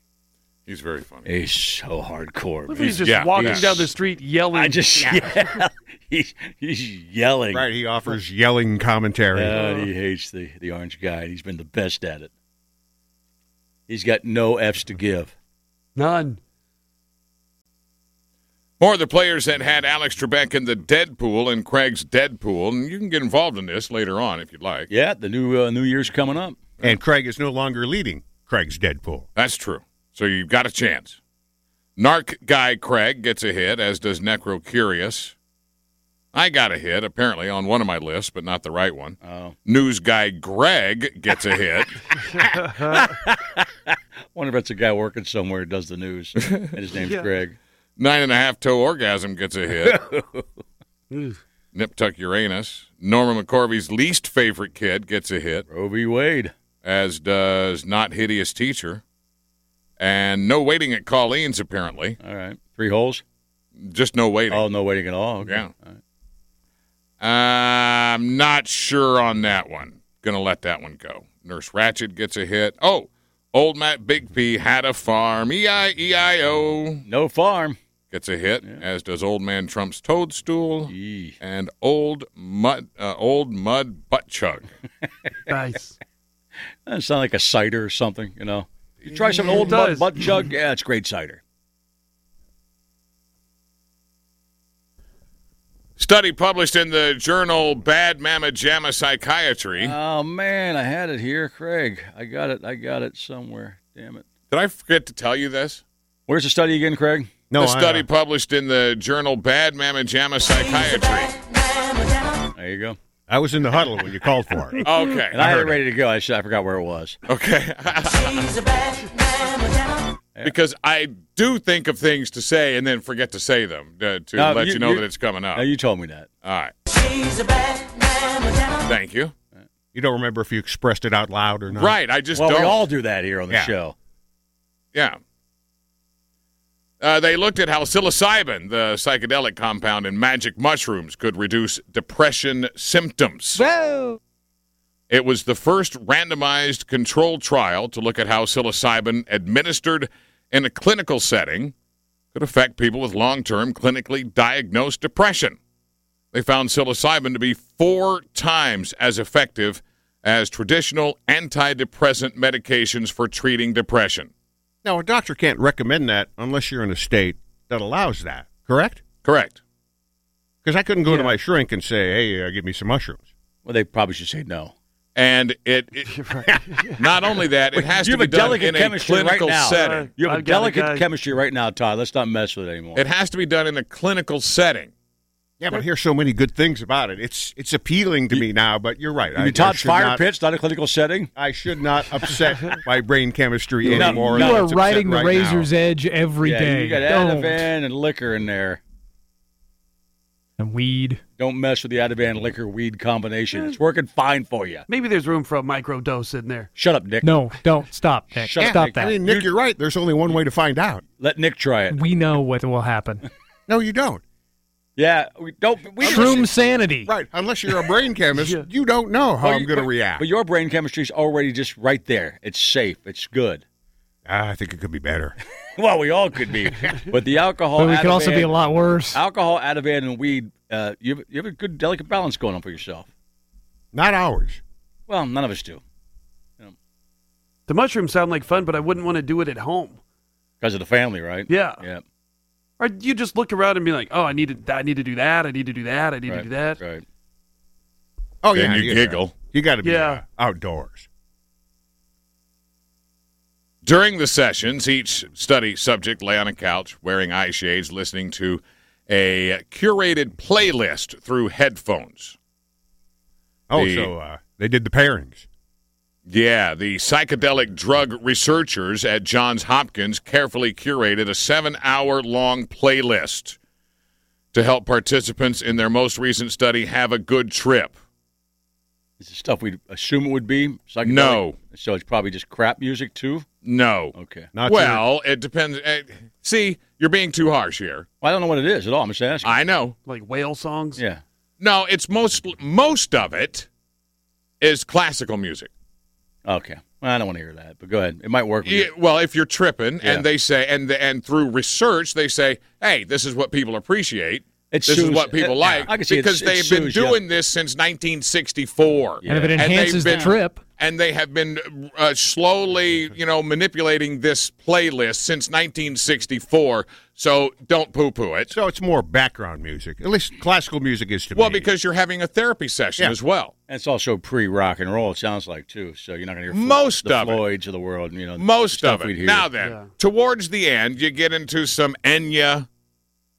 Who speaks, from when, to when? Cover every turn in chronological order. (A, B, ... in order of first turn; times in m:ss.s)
0:00.7-0:01.3 A
0:01.2-0:03.9 B
0:02.7-0:05.4 C
0:03.0-0:03.7 A
0:04.5-0:07.7 B
0:07.5-0:09.6 D
0:09.3-0:12.3 B
0:09.5-0:09.9 C
0:13.9-0:15.3 B
0:16.0-0:16.4 C
0:18.8-0:24.9 A
0:24.9-0:26.6 B
0:26.8-0:29.3 D
0:29.4-0:31.2 A
0:32.0-0:35.4 A
0:36.3-0:42.0 A
0:39.2-0:39.6 B
0:42.4-0:42.8 C
0:42.8-0:47.6 B
0:47.0-0:47.2 C
0:48.0-0:50.0 A
0:49.8-0:50.4 B
0:51.1-0:51.4 C
0:51.7-0:55.6 A
0:55.7-0:56.5 B
0:56.8-0:59.0 A
1:00.0-1:02.2 A
1:02.2-1:03.2 B
1:03.8-1:04.7 A
1:04.5-1:06.0 B
1:05.4-1:05.7 A
1:07.2-1:17.0 A
1:17.1-1:17.8 B
1:18.1-1:24.7 A
1:20.9-1:21.4 B
1:25.5-1:25.9 C
1:26.9-1:31.4 B
1:29.2-1:30.1 C
1:36.0-1:39.9 A
1:39.8-1:44.3 B
1:44.5-1:45.8 A
1:46.3-1:47.4 B
1:47.5-1:48.0 D
1:47.5-1:51.4 A
1:52.6-1:53.0 B
1:53.3-1:54.8 D
1:54.8-1:55.8 A
1:55.3-1:57.2 B
1:57.3-1:58.6 A
2:00.4-2:05.6 A
2:04.4-2:06.3 B
2:06.4-2:06.7 A
2:08.8-2:09.3 A
2:09.9-2:12.0 D
2:11.7-2:12.9 A
2:12.3-2:13.9 B
2:14.9-2:15.2 A
2:17.0-2:23.7 A
2:23.6-2:24.2 E
2:25.1-2:31.7 A
2:32.3-2:35.6 A
2:36.3-2:44.3 A
2:44.8-2:49.0 D
2:49.2-2:49.6 A
2:50.6-2:53.2 D
2:51.1-2:51.4 C
2:53.6-2:54.7 B
2:55.2-2:56.2 A
2:56.1-2:57.3 C
2:57.0-3:00.1 A
2:57.8-3:03.0 B
2:59.6-3:01.0 C
3:03.0-3:04.9 A
3:05.6-3:10.2 D
3:09.4-3:11.3 B
3:11.4-3:15.7 D
3:13.9-3:14.7 B
3:13.9-3:17.7 E
3:16.4-3:18.8 B
3:20.6-3:21.2 E
3:21.4-3:24.9 B
3:24.9-3:26.7 C
3:26.8-3:27.3 B
3:27.2-3:29.2 E
3:28.3-3:29.5 B
3:28.6-3:31.0 D
3:31.2-3:32.0 B
3:31.9-3:33.3 E
3:33.7-3:34.2 D
3:35.0-3:36.7 B
3:36.0-3:37.1 E
3:36.1-3:36.4 D
3:37.0-3:40.2 D
3:39.4-3:43.6 B
3:44.3-3:45.4 D
3:45.8-3:48.6 B
3:47.8-3:49.2 E
3:49.1-3:53.1 B
3:53.9-3:54.6 D
3:55.1-3:55.8 B
3:57.7-4:00.0 C
4:00.6-4:02.0 B
4:01.5-4:01.8 C
4:02.8-4:06.8 C
4:06.3-4:07.0 B
4:08.4-4:11.1 D
4:08.5-4:09.4 A
4:09.8-4:10.2 C
4:13.8-4:22.4 A
4:23.7-4:25.5 D
4:23.7-4:24.1 A
4:26.3-4:33.6 A
4:34.5-4:38.0 A
4:39.2-4:43.5 B
4:41.0-4:41.6 A
4:43.6-4:48.1 A
4:44.1-4:44.5 B
4:44.5-4:45.0 D
4:48.2-4:49.6 B
4:49.4-4:50.0 A
4:50.0-4:51.0 C
4:51.0-4:51.2 B
4:51.6-4:53.7 A
4:54.6-4:55.7 A
4:56.4-4:58.9 B
4:58.6-5:18.6 A
5:04.7-5:07.2 B
5:09.2-5:09.6 B
5:09.3-5:10.6 E
5:10.0-5:10.3 D
5:18.5-5:21.7 D
5:21.4-5:23.5 A
5:23.7-5:29.5 B
5:26.5-5:27.4 A
5:28.4-5:32.7 A
5:29.6-5:29.9 C